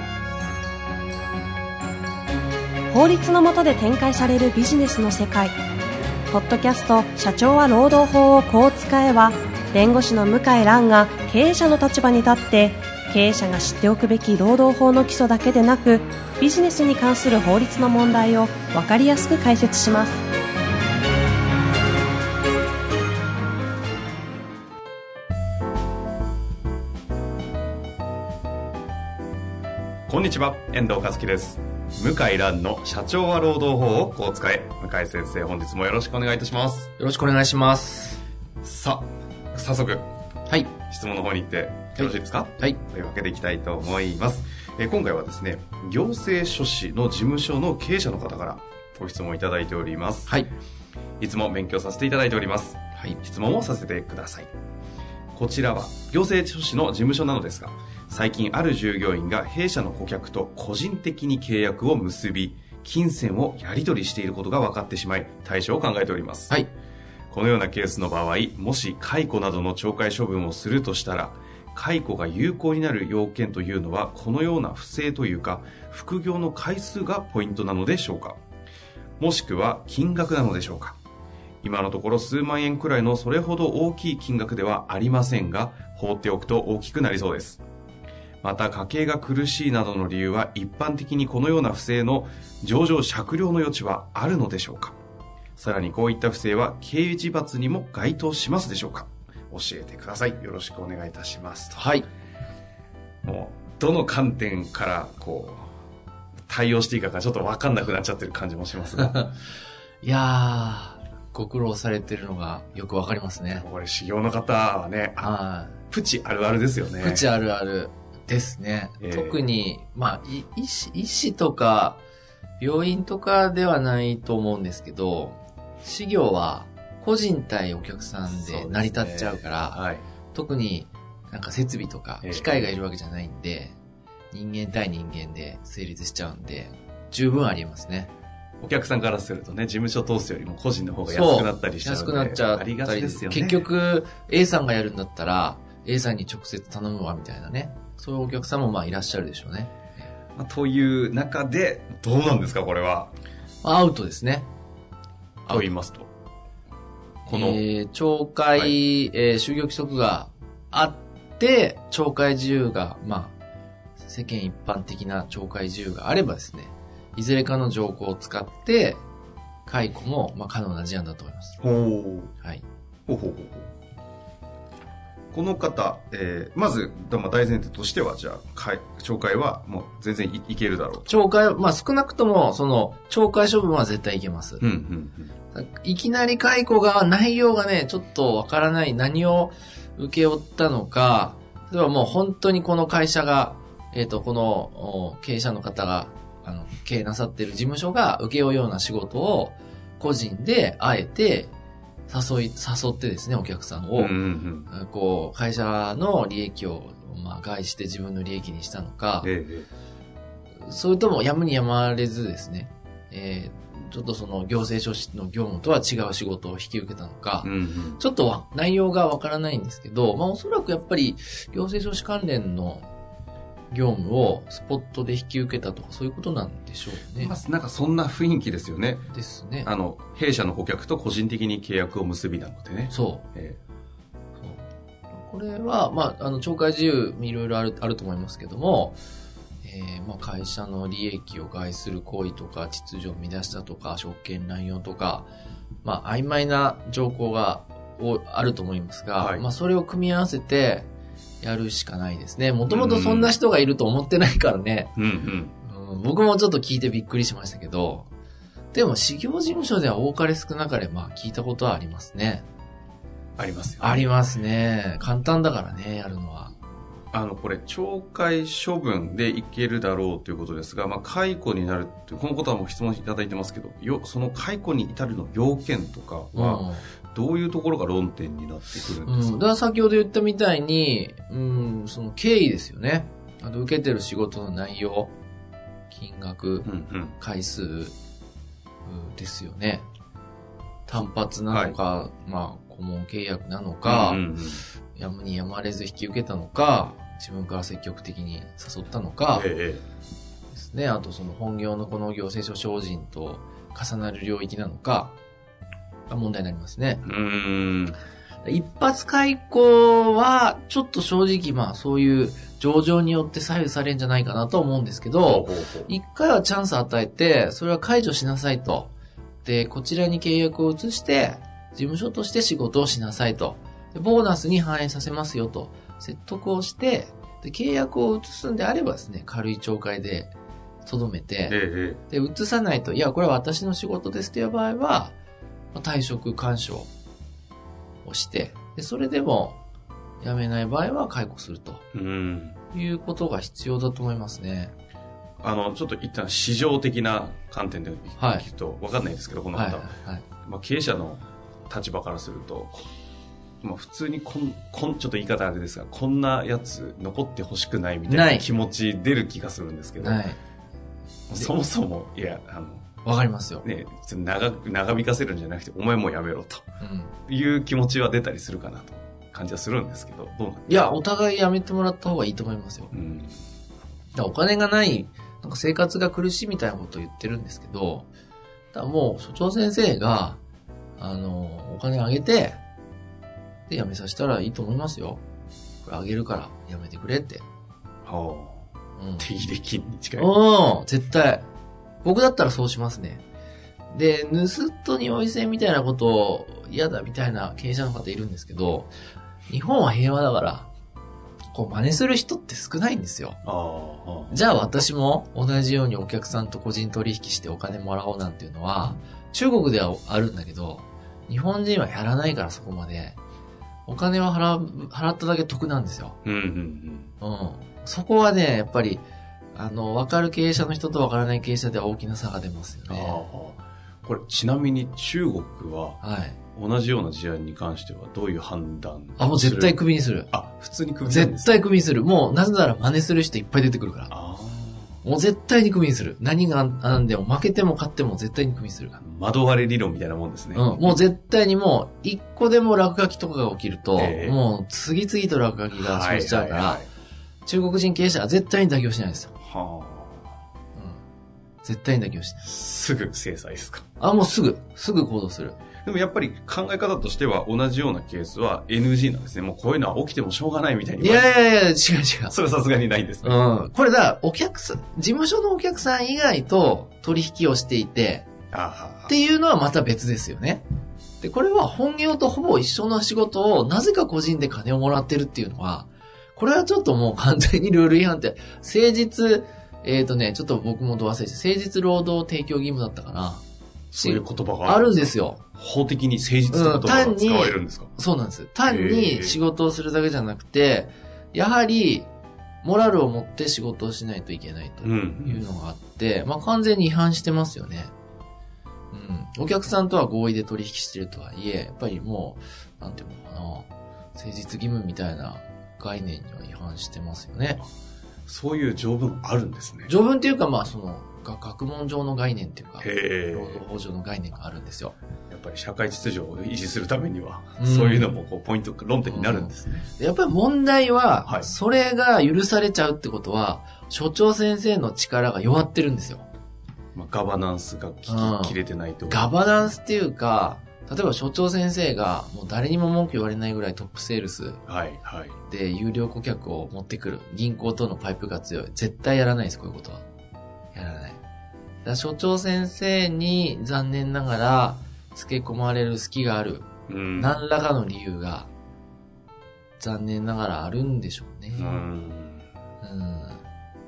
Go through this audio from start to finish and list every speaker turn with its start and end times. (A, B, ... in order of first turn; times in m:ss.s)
0:02.9-0:05.5 A
0:06.3-0:20.2 A
0:30.1-0:36.9 B
0:37.0-0:38.2 C
0:38.6-0:40.1 B
0:40.5-0:40.7 C
0:40.8-0:50.4 B
0:42.0-0:42.8 C
0:50.3-0:50.5 C
0:51.2-0:54.5 B
0:55.3-1:06.6 B
1:07.3-1:18.4 B
1:19.2-1:21.0 B
1:21.6-1:27.6 B
1:28.4-1:34.9 B
1:35.6-1:42.0 B
1:41.8-1:42.0 C
1:43.2-1:45.7 B
1:46.5-1:49.3 B
1:50.0-1:53.6 C
1:53.5-1:55.3 B
1:55.2-1:55.8 C
1:55.9-1:57.3 B
1:57.0-2:02.0 C
1:59.0-1:59.4 B
2:02.6-2:13.8 C
2:08.3-2:10.0 B
2:12.2-2:12.7 B
2:14.3-2:18.1 C
2:18.6-2:23.7 B
2:21.1-2:30.0 C
2:30.4-2:33.1 B
2:33.6-2:34.5 C
2:35.5-2:36.1 B
2:37.2-2:37.6 B
2:37.2-2:43.3 C
2:44.0-2:49.0 C
2:49.6-2:51.6 C
2:51.6-2:52.3 B
2:53.1-2:53.7 B
2:55.3-3:01.1 B
3:01.0-3:04.6 C
3:04.6-3:05.3 B
3:05.5-3:21.5 C
3:22.1-3:24.2 C
3:24.0-3:24.7 B
3:24.7-3:29.3 C
3:29.2-3:29.7 B
3:30.6-3:42.8 C
3:37.4-3:38.0 B
3:43.7-3:47.3 C
3:47.2-3:49.1 B
3:49.1-3:49.7 C
3:49.6-3:53.6 B
3:52.9-3:53.2 C
3:55.1-3:59.0 C
3:59.6-4:05.3 C
4:05.8-4:10.9 C
4:09.2-4:09.4 B
4:11.4-4:14.9 C
4:12.7-4:13.4 B
4:15.0-4:15.5 B
4:15.6-4:18.1 C
4:18.7-4:22.4 C
4:23.4-4:24.1 B
4:23.8-4:26.5 C
4:27.1-4:39.4 B
4:36.3-4:36.8 C
4:39.0-4:45.1 C
4:45.9-4:47.9 C
4:46.6-4:47.2 B
4:48.8-4:49.8 C
4:50.9-4:54.2 C
4:51.0-4:51.8 B
4:53.8-4:54.6 B
4:54.9-4:59.5 C
4:59.3-4:59.8 B
5:00.5-5:05.2 C
5:06.1-5:07.0 C
5:07.0-5:08.0 B
5:08.4-5:18.9 C
5:15.2-5:15.9 B
5:19.4-5:30.3 C
5:30.8-5:35.2 C
5:31.5-5:32.0 B
5:35.7-5:36.9 C
5:38.0-5:39.6 C
5:40.2-5:41.8 C
5:41.9-5:42.6 B
5:42.7-5:44.7 C
5:45.4-5:49.9 B
5:48.2-5:48.4 C
5:49.5-5:50.2 C
5:50.4-5:52.9 B
5:53.6-6:00.2 B
5:58.1-5:58.4 C
6:00.0-6:00.4 C
6:01.3-6:02.8 B
6:03.0-6:03.6 C
6:03.6-6:06.6 B
6:06.8-6:07.1 C
6:07.3-6:11.0 B
6:10.7-6:12.9 C
6:12.9-6:13.4 B
6:14.1-6:18.1 C
6:18.7-6:20.4 C
6:21.0-6:22.6 C
6:23.7-6:25.2 C
6:25.8-6:27.4 C
6:28.0-6:28.7 B
6:29.0-6:29.3 C
6:29.2-6:30.3 B
6:30.2-6:31.5 C
6:32.0-6:33.2 C
6:33.9-6:38.9 C
6:39.5-6:40.7 C
6:41.5-6:43.4 C
6:43.4-6:44.4 B
6:44.3-6:53.2 C
6:53.8-6:56.2 C
6:56.2-6:57.1 B
6:57.2-7:03.2 C
7:02.9-7:06.0 B
7:06.0-7:06.4 C
7:06.5-7:09.8 B
7:09.2-7:10.3 C
7:10.3-7:11.6 B
7:11.0-7:14.1 C
7:14.1-7:15.0 B
7:15.0-7:19.0 C
7:19.0-7:21.0 B
7:20.5-7:26.8 C
7:24.0-7:24.4 B
7:25.7-7:26.9 B
7:27.4-7:29.3 C
7:29.4-7:30.2 B
7:30.7-7:31.0 C
7:31.6-7:32.4 C
7:32.4-7:33.8 B
7:34.0-7:35.6 C
7:35.8-7:41.3 B
7:41.0-7:42.3 C
7:42.3-7:43.4 B
7:43.2-7:48.3 C
7:48.5-7:49.1 B
7:49.1-7:50.6 C
7:51.2-8:03.4 C
8:03.9-8:07.9 B
8:04.0-8:05.4 C
8:06.5-8:12.1 C
8:08.6-8:09.4 B
8:12.6-8:17.9 C
8:14.8-8:15.5 B
8:18.9-8:27.6 C
8:28.2-8:29.9 B
8:29.8-8:34.9 C
8:32.8-8:33.6 B
8:35.3-8:39.9 B
8:37.6-8:38.1 C
8:39.1-8:46.2 C
8:46.9-8:49.4 B
8:48.1-8:54.6 C
8:54.7-8:55.4 B
8:55.4-9:00.0 C
9:00.7-9:01.2 C
9:01.8-9:08.5 C
9:06.9-9:07.4 B
9:09.8-9:11.8 C
9:11.6-9:12.4 B
9:12.8-9:13.4 C